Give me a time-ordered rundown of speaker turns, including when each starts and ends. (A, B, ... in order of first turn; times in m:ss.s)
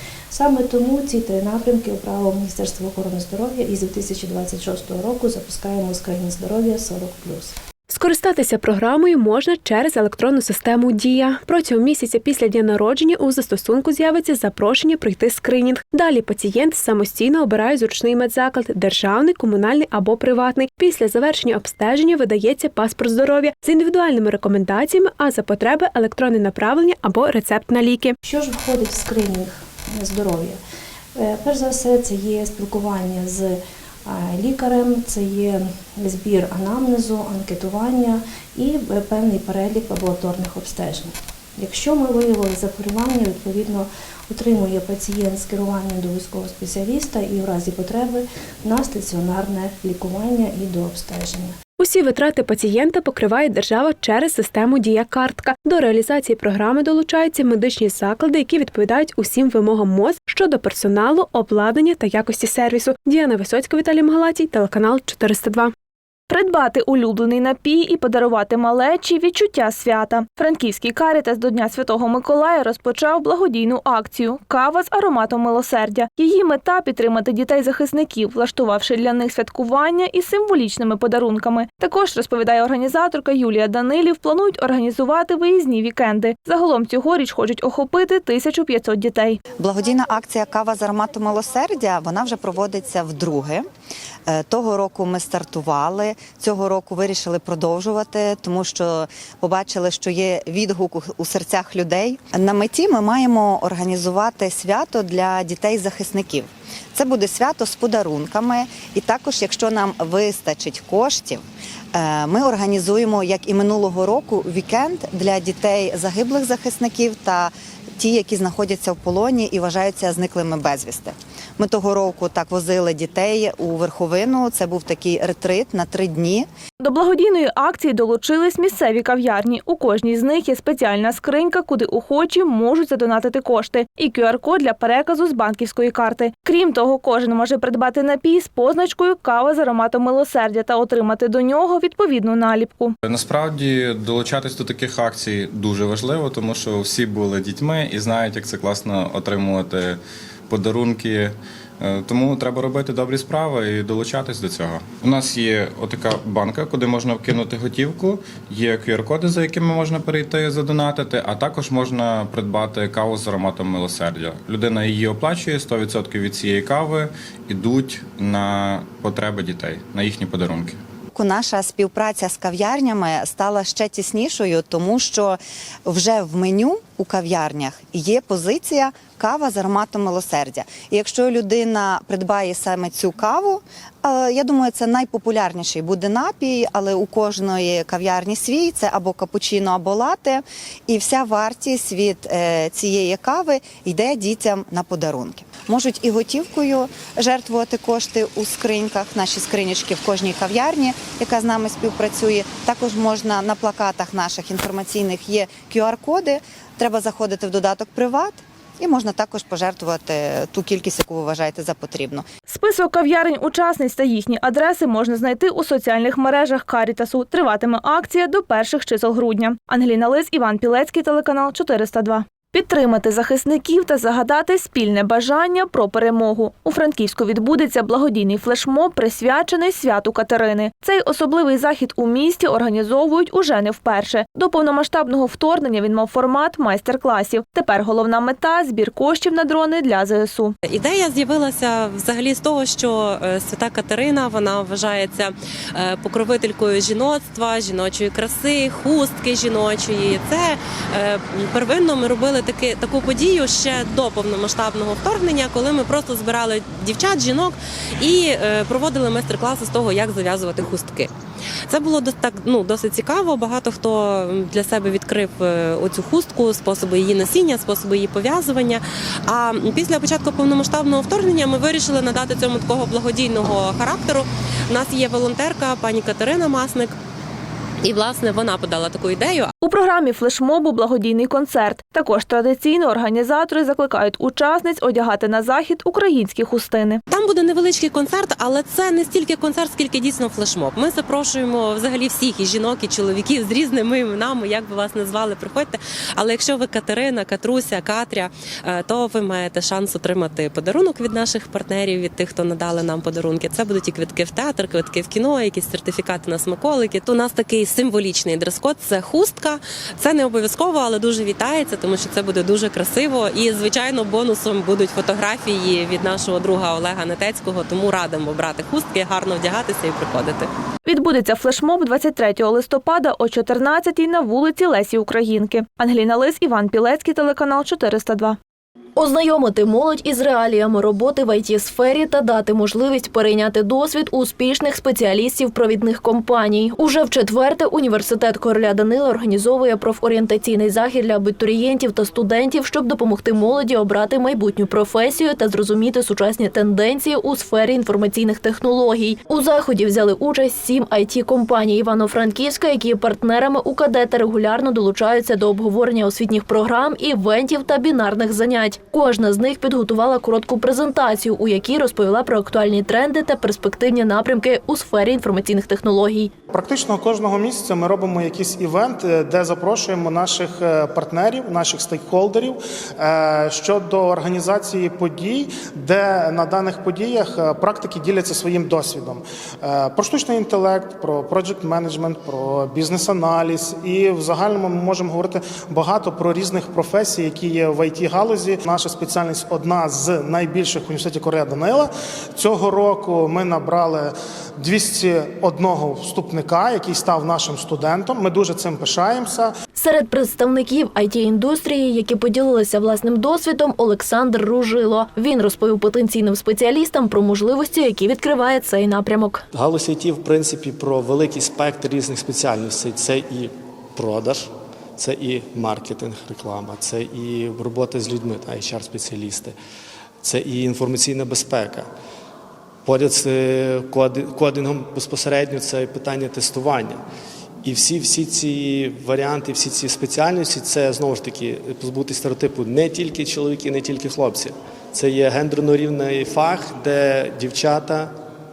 0:00.3-0:07.6 A
0:07.9-0:28.2 B
0:28.2-0:30.6 A
0:31.2-0:51.6 A
0:51.8-1:05.7 B
1:06.3-1:29.4 C
1:29.6-1:33.6 D
1:34.3-1:51.4 D
1:51.9-2:06.5 D
2:06.8-2:23.0 C
2:23.0-2:50.8 E
2:51.1-3:32.3 D
3:32.5-4:00.5 C
4:00.6-4:21.1 F
4:21.7-4:37.0 F
4:37.8-4:39.5 F
4:39.6-4:47.0 C
4:47.1-5:20.5 F
5:20.8-5:28.4 C
5:29.0-6:06.3 G
6:06.5-6:39.5 H
6:39.8-6:49.4 G
6:49.5-6:59.6 I
7:00.2-7:01.9 I
7:02.9-7:07.0 I
7:07.6-7:18.2 I